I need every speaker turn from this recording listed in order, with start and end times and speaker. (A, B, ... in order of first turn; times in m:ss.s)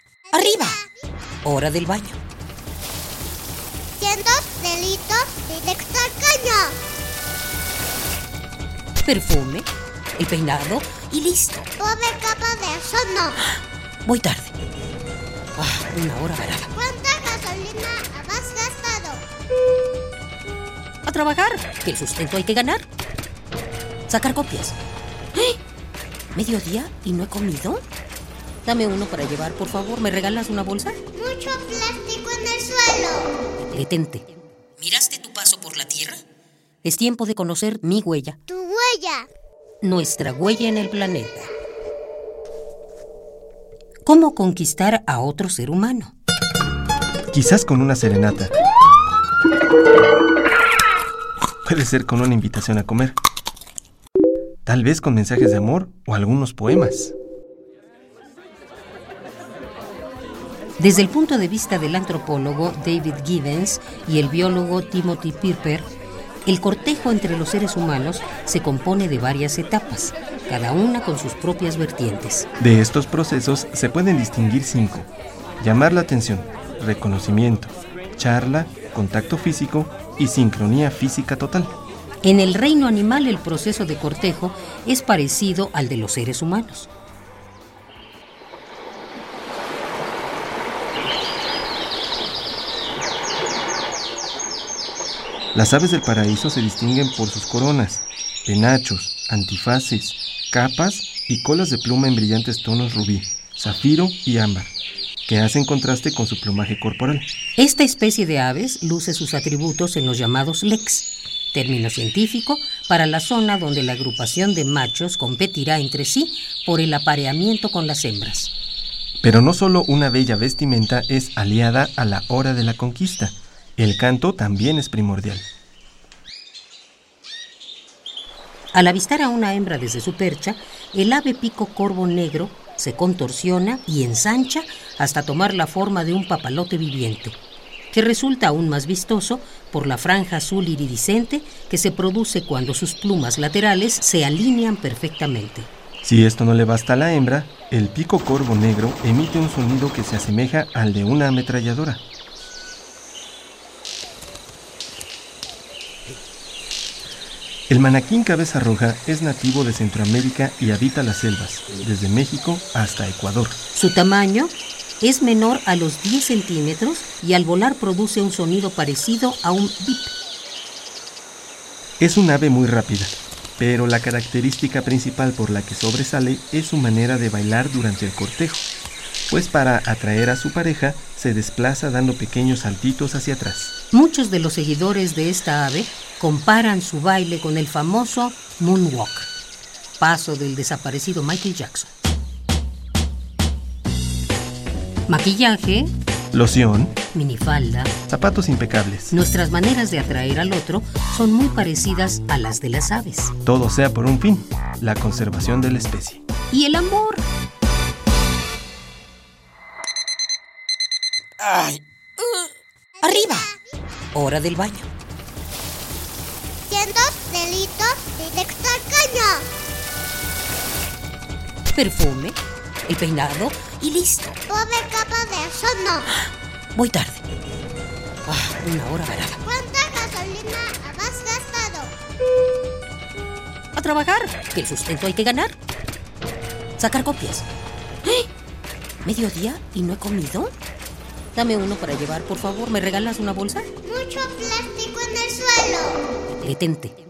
0:00.3-0:00.9 A
0:00.3-0:00.8 B
0:01.4-0:02.2 B
0:04.0-0:06.8 A
0:09.0-0:11.7 B
0:11.8-0:13.4 A
0:14.0-0:14.5 B
0:15.6-0:16.7 B
0:16.7-0:19.2 A
0:21.0-0:22.9 B
0:24.1-0:24.8 B
0:26.3-0:27.8 B
0:28.6-0:31.0 B
0:31.2-0:33.3 A
0:33.6-0:34.2 B
0:34.8-0:36.2 B
0:36.8-0:38.4 B
0:38.5-0:39.3 A
0:39.8-0:41.5 B
0:44.0-0:46.1 B
0:47.3-0:48.5 C
0:51.6-0:53.2 C
0:54.6-0:57.1 C
1:00.8-1:05.9 B
1:06.4-1:12.5 B
1:12.6-1:21.7 C
1:22.2-1:26.9 B
1:35.5-1:44.7 C
1:45.2-1:47.3 C
1:47.6-1:58.5 B
1:59.2-2:05.4 C
2:08.7-2:17.4 B
2:17.9-2:25.7 B
2:26.0-2:32.0 C
2:37.7-2:43.6 C
2:43.7-2:50.1 B
2:52.0-2:58.7 C
2:59.3-3:03.7 C
3:03.9-3:09.3 B
3:10.0-3:11.9 B
3:15.1-3:15.9 B
3:16.3-3:17.0 C
3:17.1-3:17.9 B
3:18.1-3:19.1 C
3:19.1-3:23.3 B
3:23.4-3:26.2 C
3:26.5-3:27.2 B
3:31.4-3:32.5 B
3:33.0-3:33.6 A
3:33.0-3:33.5 B
3:34.1-3:34.9 B
3:36.7-3:39.5 A
3:41.7-3:44.4 B
3:44.5-3:46.1 A
3:46.8-3:47.2 B
3:48.3-3:49.4 B
3:49.4-3:51.9 A
3:53.8-3:55.6 B
3:56.8-3:57.4 B
3:59.0-4:00.5 B
4:01.3-4:03.7 B
4:03.8-4:06.0 A
4:06.3-4:06.9 B